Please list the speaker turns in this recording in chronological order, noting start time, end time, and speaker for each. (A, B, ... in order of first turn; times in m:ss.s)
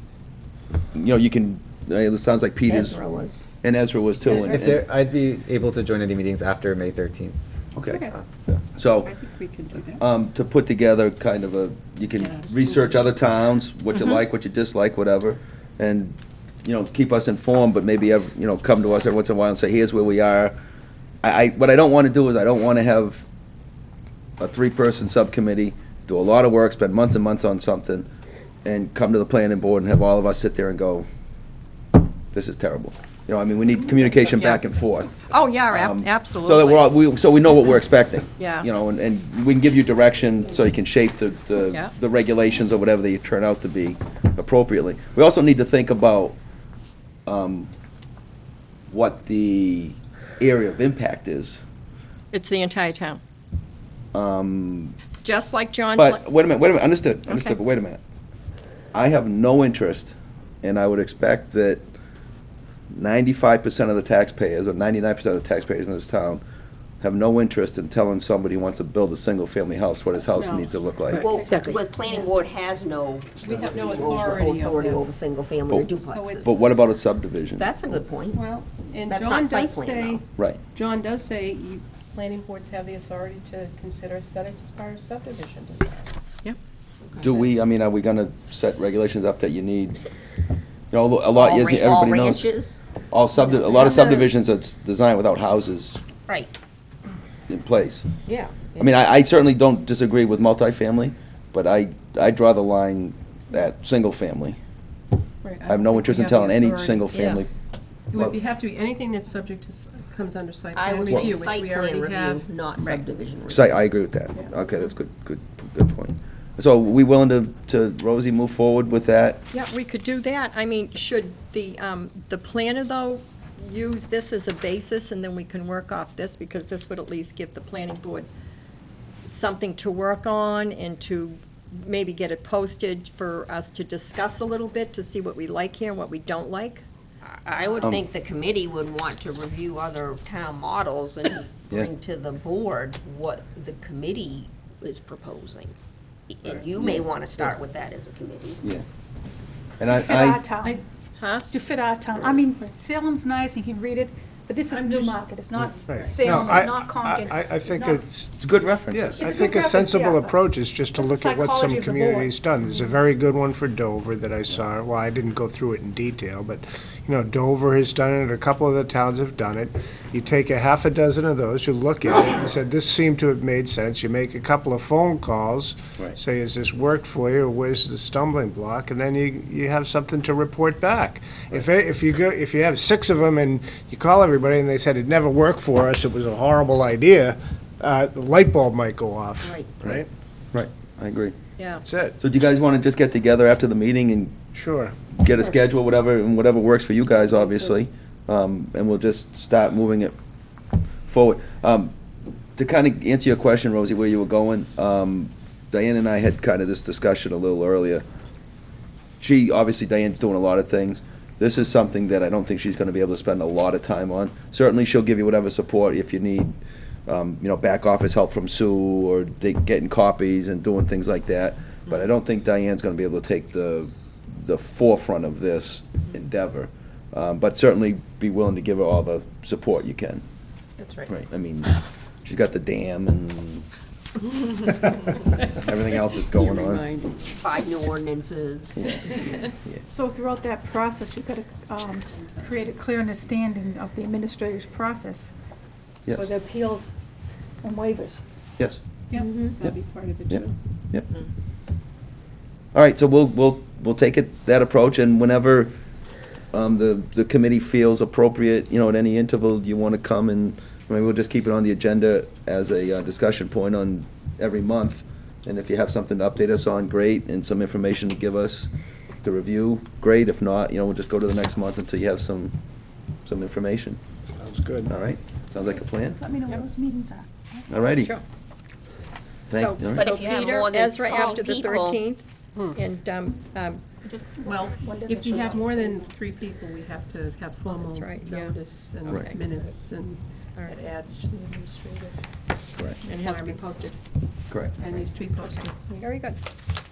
0:00.9-0:03.0 A
0:02.7-0:03.4 B
0:03.6-0:04.8 A
0:04.5-0:07.4 C
0:07.8-0:08.0 A
0:07.9-0:08.2 D
0:08.2-0:08.6 C
0:08.8-0:09.1 A
0:09.0-0:10.0 D
0:10.0-0:20.6 A
0:12.2-0:13.1 D
0:21.2-0:23.2 A
0:24.4-0:28.1 A
0:28.6-0:31.1 A
0:32.3-0:35.2 A
0:35.3-0:36.9 E
0:35.7-0:46.4 A
0:38.4-0:38.7 E
0:47.3-0:47.7 A
0:48.9-0:51.6 A
0:52.3-0:53.2 E
0:54.1-0:55.0 A
0:55.2-0:56.2 E
0:56.0-0:58.0 A
0:57.3-0:57.6 E
0:58.9-1:01.8 A
1:02.9-1:06.4 A
1:07.0-1:11.3 A
1:10.3-1:11.6 D
1:11.1-1:16.6 B
1:11.4-1:11.7 F
1:13.4-1:15.0 D
1:15.7-1:17.7 A
1:15.8-1:16.4 D
1:17.6-1:18.4 B
1:18.3-1:26.6 D
1:19.1-1:20.2 B
1:27.2-1:27.4 D
1:27.2-1:30.0 A
1:30.9-1:32.5 A
1:31.3-1:32.8 B
1:33.1-1:36.0 A
1:36.3-1:36.5 B
1:37.5-1:38.1 A
1:38.3-1:38.9 B
1:38.8-1:44.6 A
1:45.4-1:47.5 D
1:45.7-1:47.5 A
1:48.1-1:53.0 D
1:50.7-1:53.8 B
1:53.5-1:59.4 A
1:59.5-2:08.3 E
2:09.2-2:16.8 E
2:17.2-2:25.8 B
2:17.6-2:17.9 E
2:26.3-2:28.6 B
2:26.7-2:27.6 A
2:29.8-2:30.4 A
2:29.8-2:30.8 F
2:31.2-2:31.5 E
2:31.5-2:38.0 F
2:34.7-2:35.2 D
2:35.6-2:38.3 G
2:35.7-2:36.6 D
2:38.4-2:39.3 A
2:38.9-3:10.1 G
2:39.2-2:40.4 F
2:41.0-2:42.4 F
3:09.4-3:09.7 B
3:10.5-3:11.4 A
3:11.6-3:11.8 E
3:11.8-3:12.2 G
3:12.2-3:14.3 A
3:14.5-3:15.0 G
3:15.2-3:20.2 A
3:21.1-3:21.9 A
3:22.6-3:28.0 A
3:29.2-3:36.5 A
3:37.1-3:50.2 A
3:50.8-3:51.1 D
3:51.1-3:53.6 A
3:55.5-3:56.8 A
3:55.7-3:57.3 D
3:57.4-3:59.2 B
3:58.8-3:59.0 A
3:59.9-4:05.3 F
4:06.1-4:07.0 F
4:07.6-4:08.2 F
4:09.1-4:10.6 D
4:09.2-4:09.6 B
4:10.3-4:11.1 A
4:12.7-4:15.7 A
4:16.5-4:28.7 A
4:29.2-4:32.5 A
4:33.3-4:34.0 A
4:34.4-4:34.9 G
4:34.9-4:36.2 A
4:36.2-4:37.7 F
4:37.7-4:38.1 A
4:39.5-4:40.1 A
4:39.5-4:43.8 E
4:40.0-4:42.0 B
4:44.0-4:46.0 F
4:44.4-4:52.2 D
4:47.7-4:48.6 E
4:49.1-4:49.7 E
4:53.0-4:54.0 D
4:53.1-4:53.6 E
4:54.8-4:55.7 D
4:55.7-4:56.4 E